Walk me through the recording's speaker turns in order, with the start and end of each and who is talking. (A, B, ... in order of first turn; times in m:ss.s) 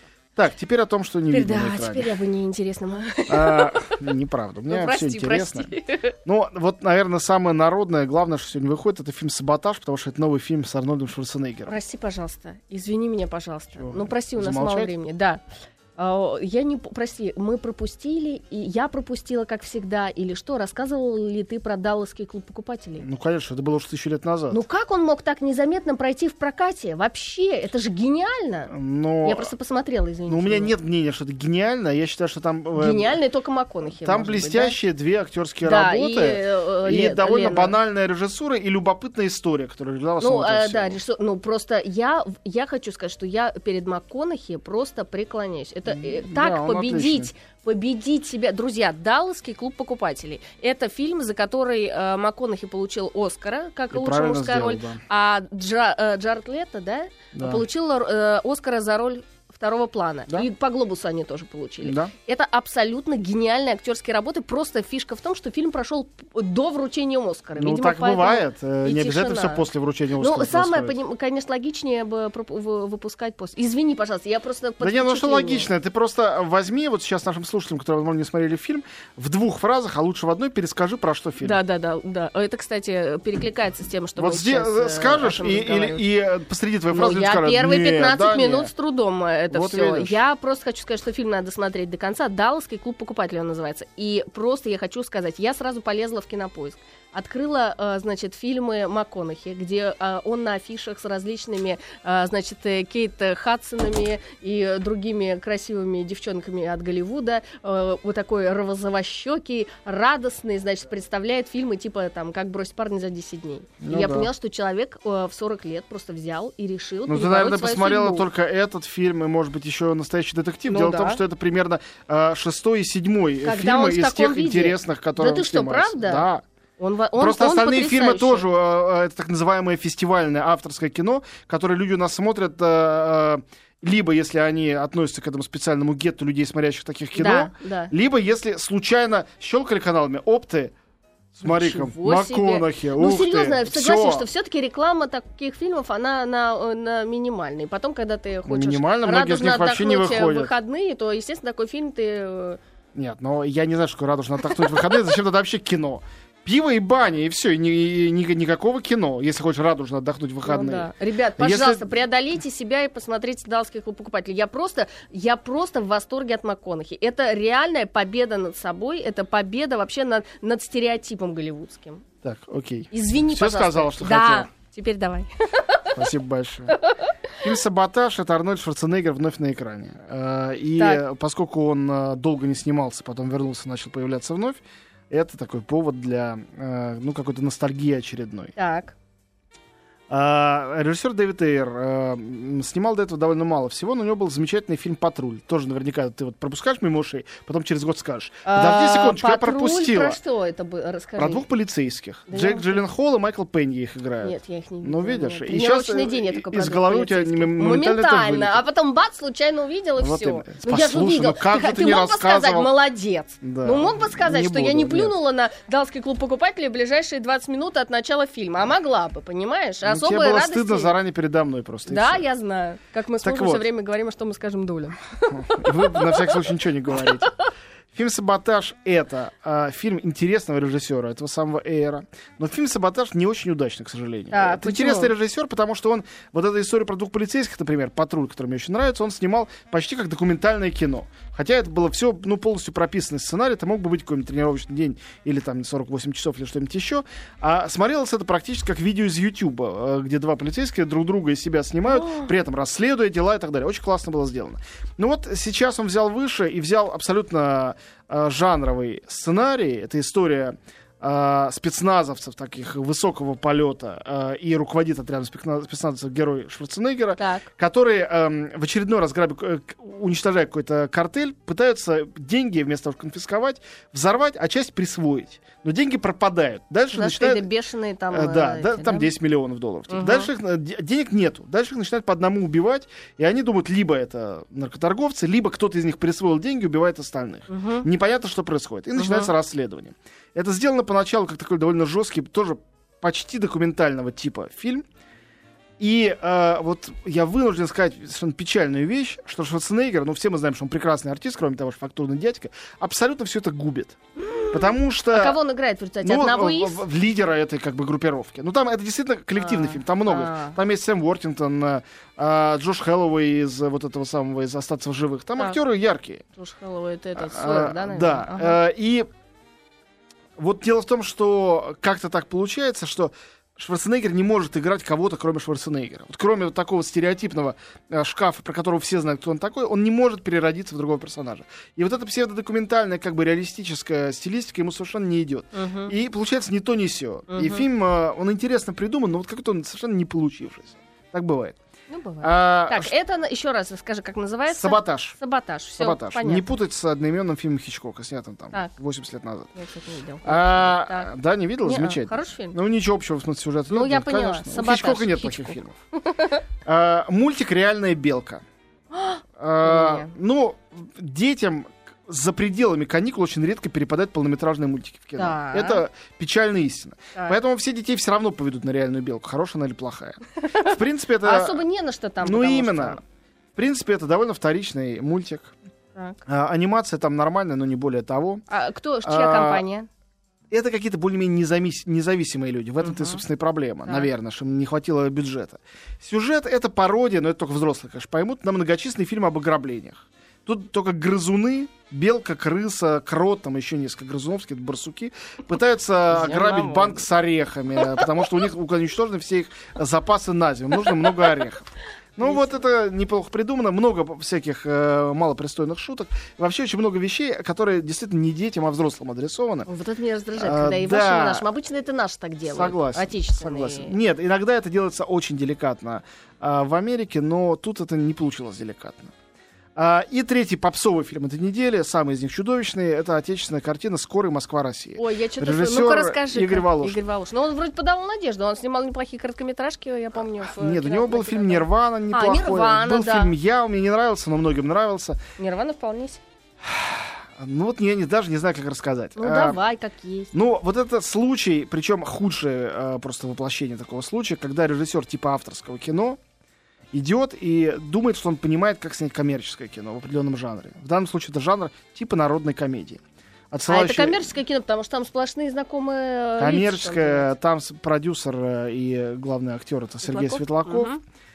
0:00.4-0:02.1 A
0:01.3-0:04.0 B
0:03.3-0:11.8 A
0:04.7-0:06.2 B
0:11.7-0:15.4 B
0:13.8-0:14.9 A
0:16.0-0:23.0 B
0:23.0-0:24.6 A
0:24.5-0:30.7 B
0:28.7-0:29.5 A
0:30.3-0:33.2 A
0:32.7-0:34.8 B
0:34.0-0:41.0 A
0:35.6-0:37.8 B
0:40.2-1:09.6 B
0:45.8-0:47.3 A
0:53.9-0:55.0 A
0:57.3-0:57.6 A
1:01.8-1:02.1 A
1:07.6-1:11.0 A
1:10.2-1:15.7 B
1:14.8-1:21.6 A
1:21.4-1:26.0 B
1:24.2-1:28.7 A
1:26.9-1:58.2 B
1:29.5-1:30.2 A
1:53.8-1:54.3 A
1:57.1-2:06.4 A
2:00.7-2:01.2 B
2:03.4-2:06.3 B
2:06.8-2:08.5 B
2:07.2-2:20.7 A
2:17.1-2:17.9 B
2:21.3-2:24.3 A
2:21.4-2:32.6 B
2:28.4-2:30.5 A
2:32.9-2:41.9 A
2:40.4-2:52.0 B
2:52.2-2:54.5 A
2:52.9-2:56.0 B
2:55.9-2:56.8 A
2:56.8-2:57.1 B
2:57.4-3:08.5 A
3:00.8-3:01.0 B
3:08.6-3:08.9 B
3:10.1-3:20.2 A
3:18.4-3:21.4 B
3:21.2-3:28.6 A
3:22.3-3:22.8 B
3:24.2-3:41.0 B
3:30.0-3:32.7 A
3:33.4-3:35.2 A
3:39.8-3:42.3 A
3:41.9-3:46.4 B
3:43.2-3:43.7 A
3:45.3-3:47.3 A
3:47.0-3:47.2 B
3:47.9-4:37.5 A
3:54.3-3:55.1 B
4:12.0-4:12.3 B
4:27.2-4:27.5 B
4:36.9-4:39.1 B
4:38.1-4:54.8 A
4:39.9-4:40.3 B
4:47.5-4:47.9 B
4:49.0-4:49.3 B
4:55.8-5:04.0 A
5:04.2-5:06.8 B
5:04.5-5:05.4 A
5:06.0-5:16.2 A
5:09.4-5:10.6 B
5:16.3-5:18.6 B
5:17.2-5:19.1 A
5:20.4-5:41.6 A
5:35.5-5:35.9 B
5:37.3-5:37.7 B
5:41.9-5:46.5 B
5:42.2-5:42.9 A
5:44.5-5:45.2 A
5:45.8-5:49.5 A
5:49.5-5:51.1 B
5:50.2-5:55.7 A
5:51.6-5:52.6 B
5:53.7-5:56.4 B
5:56.6-5:58.4 A
5:58.9-6:00.1 B
5:59.4-6:11.6 A
6:05.2-6:05.8 B
6:10.4-6:13.0 B
6:12.2-6:13.0 A
6:13.6-6:15.5 A
6:15.9-6:16.2 B
6:16.2-6:18.4 A
6:18.5-6:19.9 B
6:19.0-6:19.6 A
6:20.5-6:49.7 A
6:22.8-6:23.2 B
6:36.1-6:37.1 B
6:37.7-6:38.1 B
6:40.8-6:41.2 B
6:42.2-6:42.6 B
6:49.6-6:54.0 B
6:50.4-6:51.4 A
6:52.4-6:59.1 A
6:59.8-7:07.0 A
7:05.0-7:13.3 B
7:10.1-7:15.2 A
7:15.4-7:16.2 B
7:16.6-7:19.6 A
7:19.2-7:20.3 B
7:20.3-7:26.2 A
7:26.9-7:34.3 A
7:33.7-7:37.3 B
7:36.4-7:40.9 A
7:40.0-7:41.0 B